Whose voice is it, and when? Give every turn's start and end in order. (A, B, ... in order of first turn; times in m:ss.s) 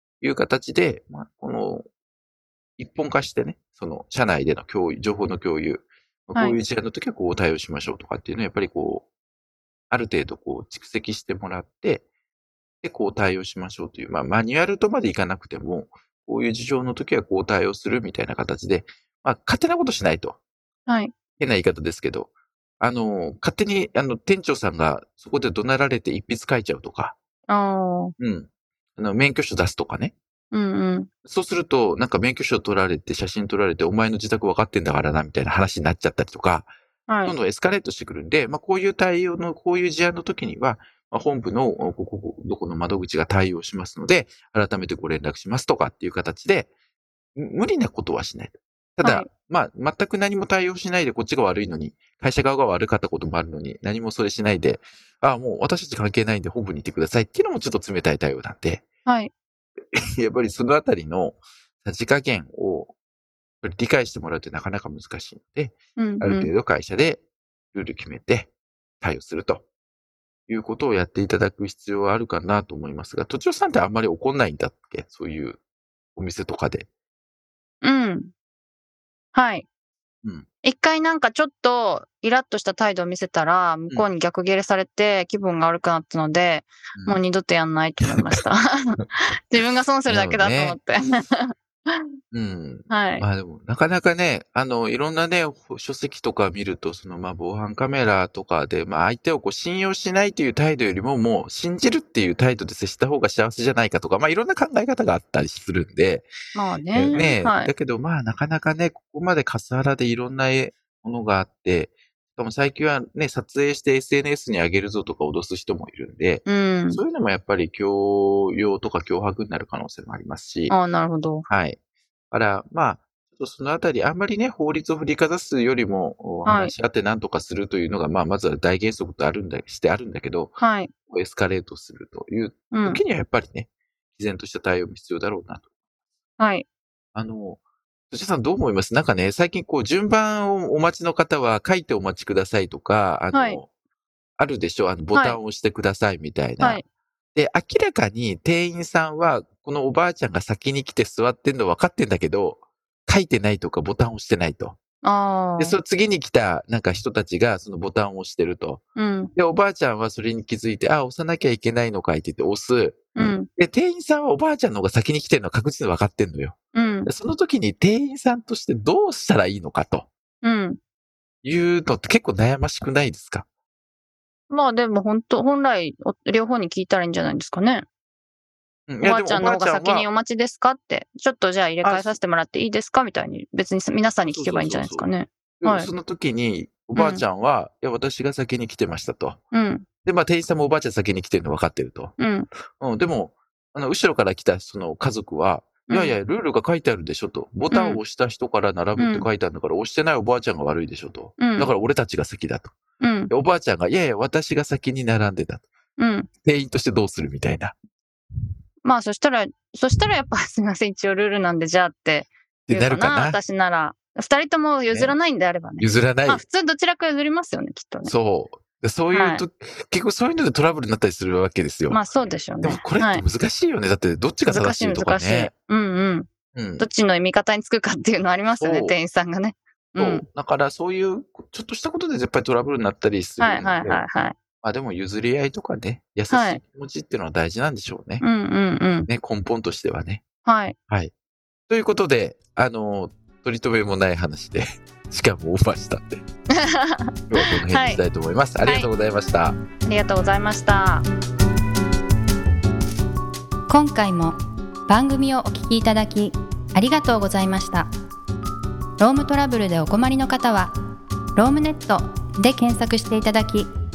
0:00.2-0:01.8 A
0:02.8-0:09.1 A
0:09.9-0:12.0 A
0:12.8-0:20.4 A
0:20.9-0:21.1 B
0:21.4-0:27.2 A
0:27.5-0:28.1 B
0:28.2-0:30.2 A
0:30.5-0:31.1 B
0:31.2-0:36.7 A
0:37.1-0:37.4 B
0:37.2-0:46.7 A
0:47.4-0:58.9 A
0:49.0-0:49.3 B
0:59.0-0:59.3 B
0:59.9-1:02.9 A
1:03.6-1:09.6 A
1:06.0-1:06.5 B
1:10.5-1:15.6 A
1:16.1-1:16.9 A
1:17.8-1:18.3 B
1:19.3-1:19.6 B
1:20.6-1:32.1 B
1:30.1-1:30.8 A
1:32.3-1:46.3 A
1:32.9-1:33.2 B
1:46.5-1:47.7 B
1:46.9-2:00.8 A
1:56.5-1:57.0 B
2:00.7-2:01.5 B
2:01.5-2:01.8 A
2:02.3-2:15.7 A
2:06.4-2:06.7 B
2:10.6-2:10.9 B
2:12.7-2:13.0 B
2:16.4-2:16.6 B
2:17.1-2:23.7 A
2:23.3-2:23.6 B
2:24.4-2:26.8 A
2:25.1-2:25.4 B
2:27.3-2:34.8 A
2:35.0-2:35.8 B
2:35.6-2:38.8 A
2:39.0-2:39.3 B
2:39.3-2:50.1 A
2:43.1-2:43.5 B
2:46.7-2:47.1 B
2:50.4-2:50.8 B
2:51.4-2:53.4 A
2:54.5-2:57.8 B
2:58.9-3:00.1 A
2:59.0-3:05.9 B
3:01.8-3:02.2 A
3:04.2-3:05.1 A
3:05.6-3:09.4 A
3:07.0-3:07.2 B
3:09.5-3:09.8 B
3:10.0-3:12.1 A
3:12.2-3:12.5 B
3:12.8-3:22.8 A
3:15.9-3:16.2 B
3:17.7-3:18.0 B
3:19.0-3:19.3 B
3:21.4-3:21.7 B
3:23.0-3:23.3 B
3:23.3-3:25.7 A
3:26.0-3:26.3 B
3:26.4-3:27.8 A
3:28.8-3:38.1 B
3:32.7-3:33.4 A
3:34.9-3:35.2 A
3:35.8-3:36.4 A
3:38.0-3:42.0 A
3:39.1-3:39.4 B
3:41.9-3:43.2 B
3:42.6-3:45.5 A
3:44.5-3:46.3 B
3:46.5-3:46.9 A
3:46.8-3:50.2 B
3:48.6-3:48.9 A
3:50.0-3:54.0 A
3:53.4-3:54.4 B
3:54.6-3:58.2 A
3:56.3-3:56.6 B
3:58.2-3:59.1 B
3:59.1-4:00.2 A
4:00.4-4:00.8 B
4:01.7-4:06.2 A
4:06.6-4:08.0 B
4:07.3-4:09.6 A
4:08.6-4:08.9 B
4:09.8-4:11.0 B
4:13.7-4:17.9 C
4:19.0-4:20.7 C
4:21.4-4:23.7 C